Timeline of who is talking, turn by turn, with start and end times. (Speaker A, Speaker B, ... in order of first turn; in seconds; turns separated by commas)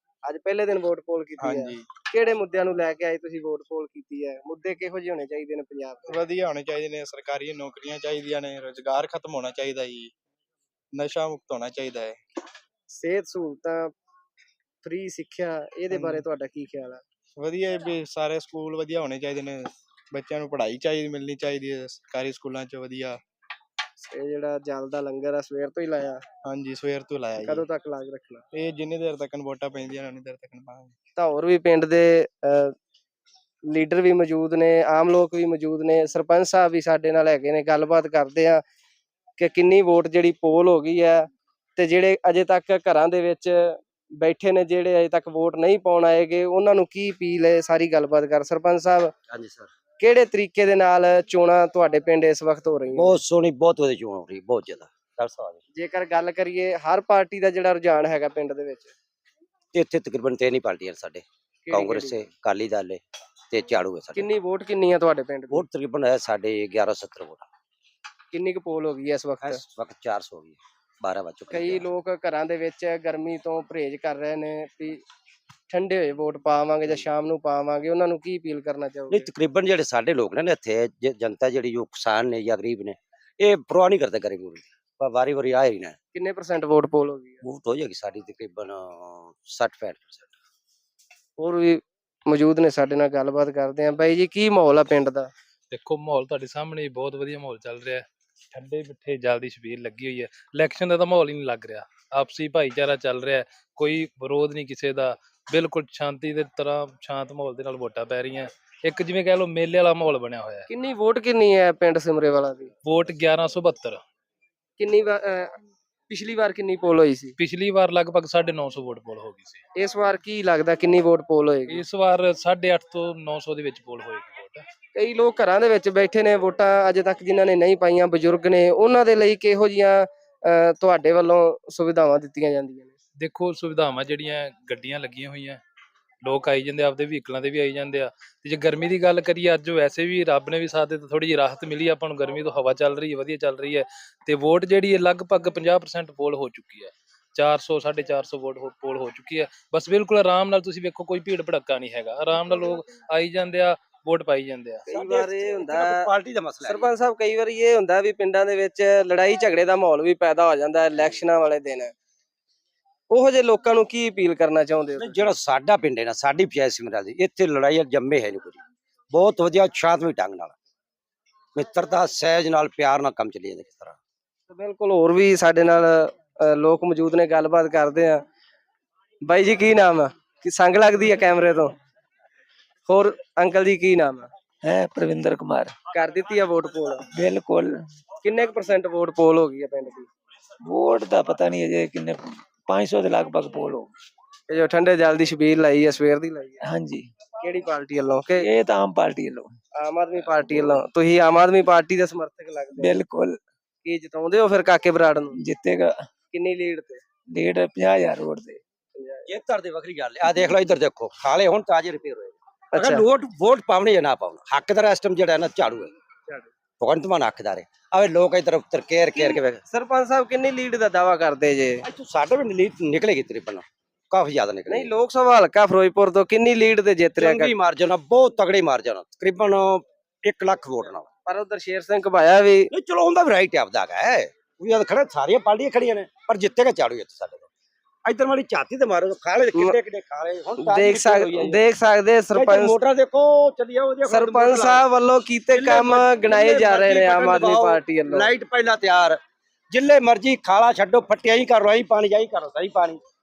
Speaker A: 0.2-6.2, Speaker B: 1.4-1.9, Speaker B: 6.1-10.1, Speaker B: 10.9-12.2, Speaker A: 12.9-13.9, Speaker A: 14.8-17.0, Speaker B: 15.9-16.2, Speaker B: 17.4-23.2, Speaker A: 24.0-26.2, Speaker B: 26.4-27.6, Speaker A: 27.4-28.4, Speaker B: 28.5-30.9, Speaker A: 31.2-32.7, Speaker A: 33.7-38.6, Speaker A: 39.4-49.1, Speaker C: 49.3-49.7, Speaker A: 50.0-53.2, Speaker C: 52.9-55.6, Speaker A: 55.8-58.9, Speaker C: 59.7-64.3, Speaker A: 61.6-62.2, Speaker A: 64.1-65.6, Speaker C: 65.5-67.5, Speaker A: 68.3-69.6, Speaker C: 69.4-71.9, Speaker A: 71.5-75.0, Speaker A: 75.7-79.3, Speaker C: 79.1-86.0, Speaker A: 86.1-87.4, Speaker C: 87.4-90.3, Speaker A: 91.4-95.3, Speaker D: 95.7-110.7, Speaker A: 110.7-112.7, Speaker D: 112.8-114.0, Speaker A: 114.8-115.5, Speaker A: 116.1-117.4, Speaker D: 117.4-119.6, Speaker A: 119.8-121.8, Speaker D: 121.7-124.7, Speaker A: 124.9-132.9, Speaker D: 133.2-135.6, Speaker D: 136.2-154.8, Speaker C: 154.9-156.9, Speaker A: 154.9-156.1, Speaker A: 156.6-161.9, Speaker A: 163.1-165.2, Speaker C: 165.0-168.6, Speaker C: 169.1-170.6, Speaker C: 171.5-174.0, Speaker A: 174.5-178.2, Speaker A: 179.2-181.7, Speaker A: 182.9-184.3, Speaker E: 184.6-185.7, Speaker A: 185.9-187.0, Speaker E: 187.1-187.8, Speaker A: 188.2-190.1, Speaker E: 190.7-193.9, Speaker A: 194.5-196.6, Speaker E: 196.6-197.1, Speaker A: 197.4-198.5, Speaker E: 198.4-199.5, Speaker A: 199.7-203.0, Speaker E: 202.8-203.4, Speaker A: 203.8-205.4, Speaker E: 205.3-206.0, Speaker A: 206.3-207.0, Speaker E: 207.3-208.6, Speaker A: 208.9-209.3, Speaker C: 209.3-215.9, Speaker A: 212.7-213.0, Speaker C: 216.8-219.6, Speaker A: 219.1-221.8, Speaker C: 221.8-224.9, Speaker A: 224.7-227.5, Speaker C: 227.2-231.1, Speaker A: 231.2-232.7, Speaker C: 232.7-237.5, Speaker C: 238.0-241.6, Speaker A: 240.6-242.8, Speaker C: 242.3-244.8, Speaker A: 244.1-248.3, Speaker C: 245.5-249.2, Speaker C: 249.7-253.0